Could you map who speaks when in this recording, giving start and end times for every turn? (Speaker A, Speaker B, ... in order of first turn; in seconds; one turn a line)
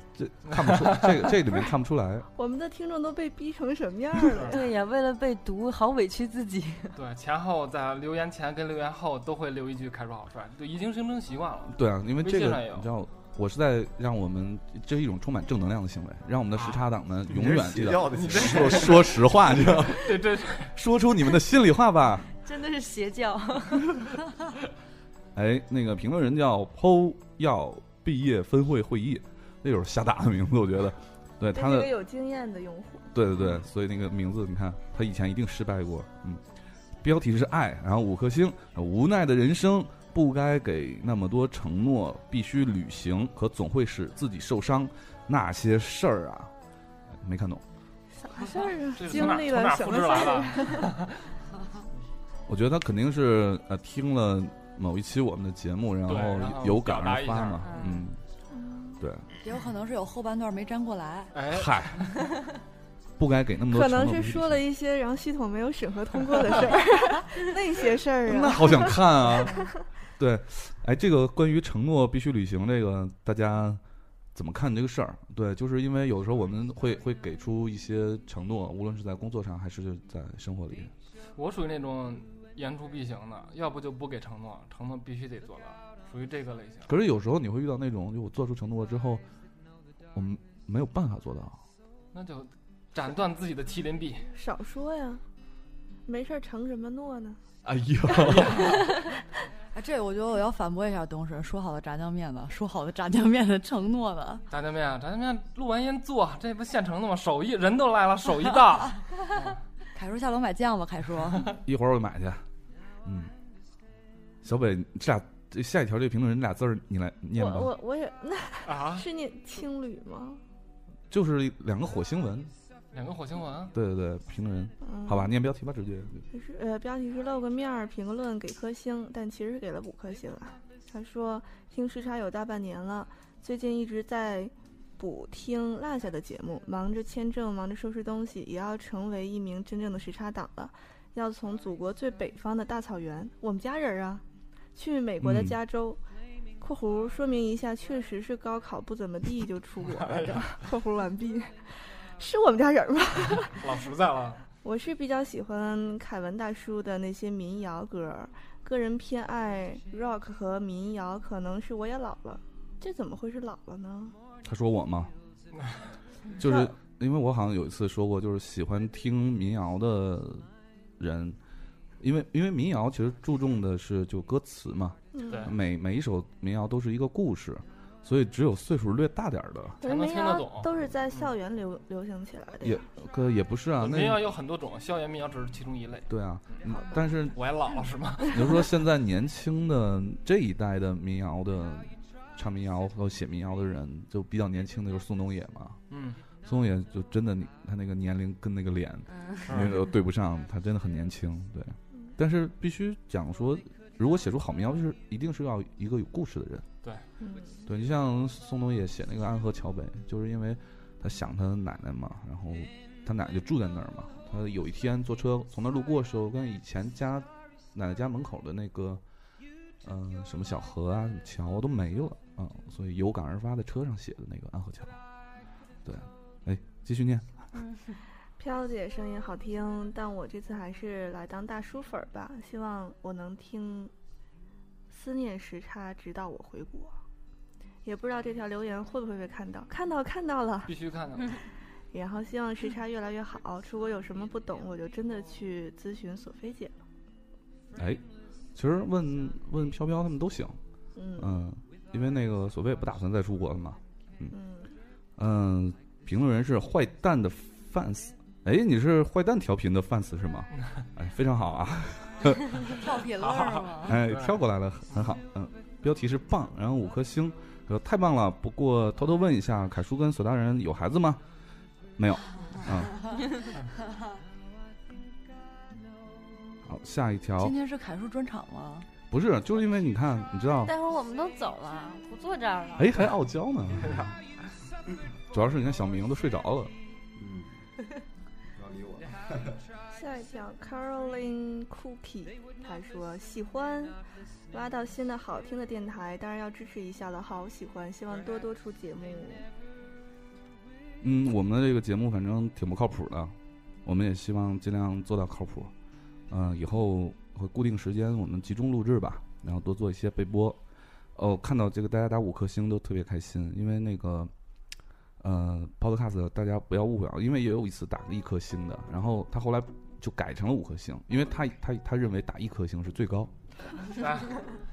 Speaker A: 0.2-2.3
Speaker B: 0.5-1.2
Speaker C: 2.4-4.7
Speaker D: 4.5-7.0
Speaker B: 7.0-12.9
Speaker A: 11.7-20.2
Speaker B: 16.6-16.8
Speaker E: 17.3-19.0
Speaker B: 18.1-20.8
Speaker A: 20.7-22.3
Speaker D: 22.4-24.1
Speaker A: 25.4-31.9
Speaker C: 31.5-33.1
Speaker A: 33.1-36.4
Speaker A: 37.0-46.5
Speaker A: 47.2-47.6
Speaker C: 48.2-50.9
Speaker B: 49.0-51.2
Speaker A: 52.5-58.2
Speaker B: 56.1-58.0
Speaker C: 58.5-59.0
Speaker A: 59.0-59.3
Speaker F: 59.4-61.4
Speaker B: 61.3-62.1
Speaker A: 61.5-62.0
Speaker A: 63.2-64.6
Speaker C: 63.7-69.7
Speaker A: 68.3-73.8
Speaker A: 74.3-80.9
Speaker B: 81.4-86.9
Speaker A: 86.9-89.2
Speaker A: 90.1-91.6
Speaker B: 92.1-94.3
Speaker C: 94.3-95.2
Speaker C: 96.1-97.4
Speaker A: 97.6-98.8
Speaker B: 98.2-98.8
Speaker F: 99.7-104.4
Speaker B: 104.5-109.5
Speaker F: 110.0-111.6
Speaker A: 111.6-112.4
Speaker A: 113.0-113.3
Speaker A: 114.4-117.7
Speaker C: 117.4-120.4
Speaker B: 118.7-119.1
Speaker A: 121.1-122.5
Speaker B: 122.9-123.7
Speaker A: 123.7-126.2
Speaker C: 124.8-125.3
Speaker C: 126.3-144.2
Speaker C: 144.8-146.0
Speaker A: 145.2-145.6
Speaker C: 146.6-153.6
Speaker B: 149.8-150.5
Speaker B: 153.5-154.4
Speaker C: 154.6-164.2
Speaker A: 164.4-165.1
Speaker A: 166.4-170.5
Speaker C: 166.4-166.7
Speaker A: 171.0-171.4
Speaker A: 172.0-179.8
Speaker C: 175.1-175.5
Speaker B: 175.3-175.5
Speaker C: 179.8-182.8
Speaker B: 179.8-181.3
Speaker A: 182.6-184.3
Speaker B: 183.8-186.7
Speaker A: 186.1-187.4
Speaker C: 186.7-187.0
Speaker B: 187.3-188.7
Speaker A: 188.3-195.8
Speaker B: 195.9-196.2
Speaker A: 196.4-206.7
Speaker D: 199.1-199.5
Speaker B: 199.5-199.8
Speaker C: 207.2-207.6
Speaker A: 207.7-219.0
Speaker A: 219.8-225.0
Speaker A: 225.8-227.3
Speaker C: 228.4-233.9
Speaker C: 234.9-237.0
Speaker C: 237.8-240.7
Speaker B: 240.7-241.4
Speaker C: 241.9-246.8
Speaker A: 247.8-248.0
Speaker A: 248.6-250.6
Speaker C: 251.0-251.4
Speaker A: 251.2-254.3
Speaker C: 254.3-254.7
Speaker A: 255.2-262.5
Speaker F: 262.8-264.0
Speaker B: 263.2-264.4
Speaker A: 263.9-271.2
Speaker A: 272.0-272.9
Speaker A: 276.7-277.5
Speaker F: 277.4-278.9
Speaker A: 279.1-280.7
Speaker D: 280.6-282.9
Speaker A: 282.8-284.1
Speaker B: 283.8-284.1
Speaker A: 285.3-286.7
Speaker E: 287.2-287.6
Speaker E: 288.6-289.6
Speaker C: 289.9-294.0
Speaker C: 294.5-299.5
Speaker A: 301.0-305.7
Speaker A: 306.3-310.6
Speaker A: 311.2-314.3
Speaker A: 315.2-323.3
Speaker B: 324.0-324.4